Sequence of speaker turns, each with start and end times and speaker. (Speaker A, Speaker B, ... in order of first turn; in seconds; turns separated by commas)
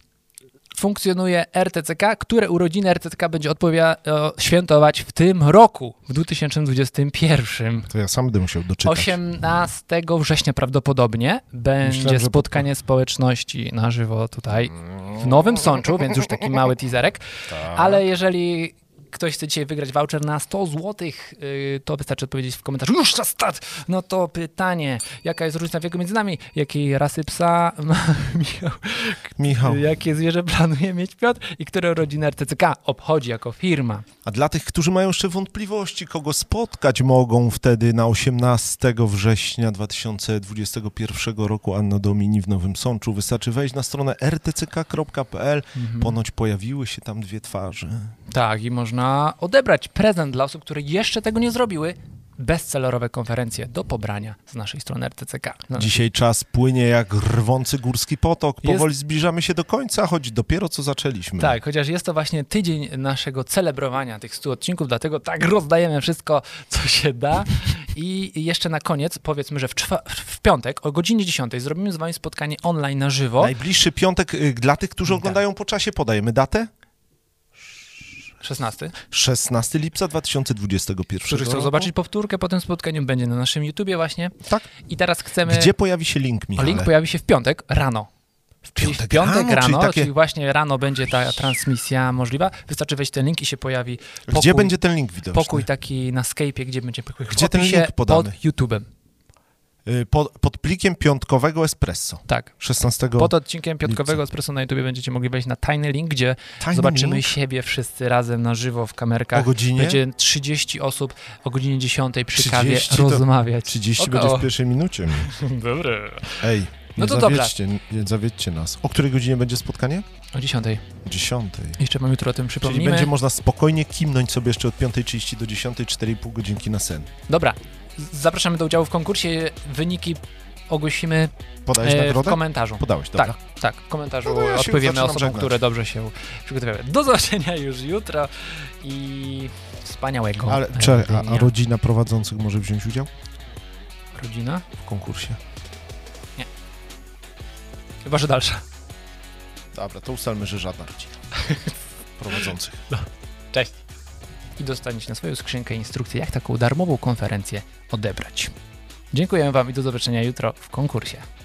Speaker A: 0.8-7.9, Speaker B: 7.9-9.2, Speaker A: 8.8-34.1, Speaker B: 11.8-12.7, Speaker B: 17.5-18.0, Speaker B: 29.4-29.9, Speaker B: 34.2-48.1, Speaker A: 45.8-46.1, Speaker A: 48.3-55.9, Speaker B: 55.8-61.6, Speaker A: 61.4-73.5, Speaker B: 73.4-76.7, Speaker A: 75.1-75.4, Speaker A: 78.4-79.0, Speaker B: 79.1-81.9, Speaker A: 81.2-85.7, Speaker B: 85.5-86.9, Speaker A: 86.6-88.1, Speaker A: 88.7-94.8, Speaker B: 88.8-90.1, Speaker B: 94.3-95.7, Speaker A: 95.3-98.9, Speaker B: 97.3-98.4, Speaker B: 99.8-104.2, Speaker A: 103.2-114.5, Speaker B: 106.6-107.3, Speaker B: 109.3-110.0, Speaker B: 112.3-115.3, Speaker A: 115.2-116.4, Speaker B: 116.4-120.1, Speaker A: 117.0-117.5, Speaker A: 120.3-120.9, Speaker B: 121.0-121.8, Speaker A: 121.8-123.1, Speaker B: 122.6-127.1, Speaker A: 127.3-141.5, Speaker B: 131.7-133.4, Speaker B: 134.2-135.6, Speaker B: 140.5-143.1, Speaker A: 144.1-144.7, Speaker B: 144.8-145.4, Speaker A: 148.0-148.6, Speaker B: 149.8-151.2, Speaker A: 151.4-151.7, Speaker B: 152.2-152.8, Speaker A: 152.9-153.8, Speaker A: 154.6-158.5, Speaker A: 159.1-161.3